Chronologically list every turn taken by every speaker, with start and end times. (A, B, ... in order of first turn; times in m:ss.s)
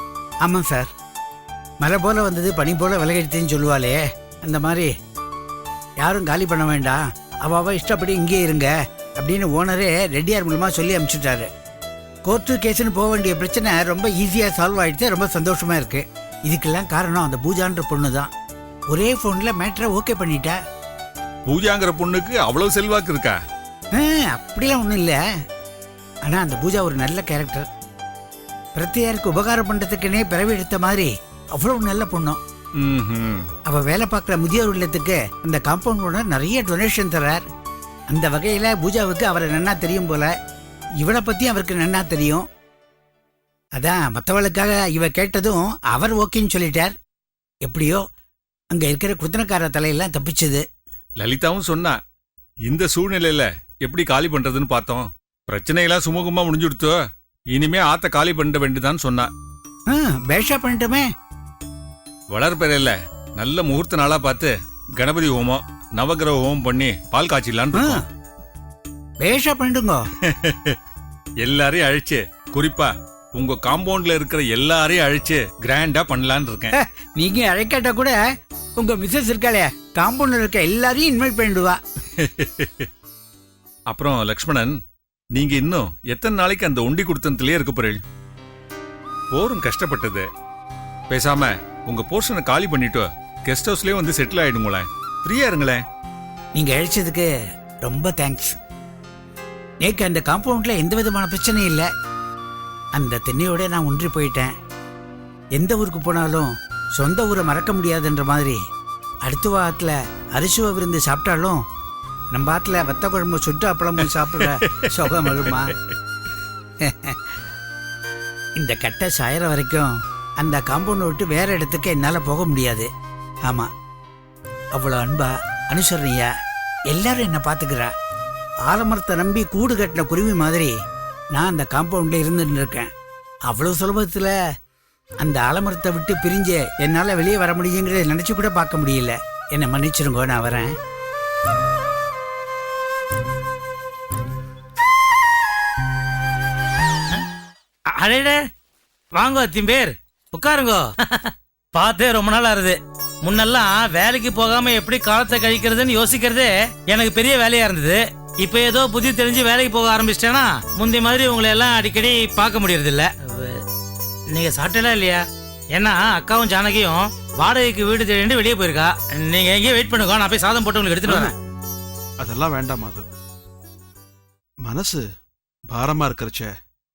0:00.4-0:00.9 A
0:01.8-0:04.9 A
0:06.0-0:11.5 A
0:12.3-0:18.3 A
0:18.9-0:20.6 A
0:21.5-0:23.4 B
0:24.0-0:25.2 A
0:26.3-0:27.7 A
0:28.8-0:32.4 A
0:32.8-0:33.5 B
0:33.7-0:37.4 A
0:38.1-0:40.3 A
0:41.0-0:42.4 A
0:43.8-0:46.9 A
0:47.7-0:48.0 A
0:48.7-0:50.6 A
0:51.2-0:52.0 B
0:52.7-0:57.0 B
0:57.5-0:59.3 B
0:59.9-1:01.1 A
1:02.3-1:08.0 B
1:07.7-1:08.0 A
1:09.2-1:10.0 A
1:10.2-1:10.8 B
1:11.4-1:16.7 B
1:16.7-1:18.2 A
1:18.8-1:21.8 A
1:22.2-1:22.9 B
1:23.9-1:24.8 B
1:25.3-1:28.0 B
1:29.3-1:30.3 B
1:31.1-1:35.8 B
1:36.6-1:37.3 A
1:37.9-1:38.6 A
1:39.8-1:41.9 A
1:43.0-1:44.5 A
1:45.6-1:48.6 A
1:49.2-1:51.6 A
1:52.3-1:55.8 A
1:54.5-1:55.5 B
1:56.9-1:57.2 A
1:58.6-2:02.9 A
2:04.8-2:06.3 A
2:06.9-2:07.9 A
2:08.7-2:10.7 A
2:11.4-2:12.9 A
2:13.5-2:14.3 A
2:15.2-2:20.7 A
2:28.0-2:28.4 C
2:29.2-2:43.6 C
2:44.3-2:51.3 C
2:52.2-2:53.0 D
2:54.6-2:55.0 D
2:55.7-2:56.5 D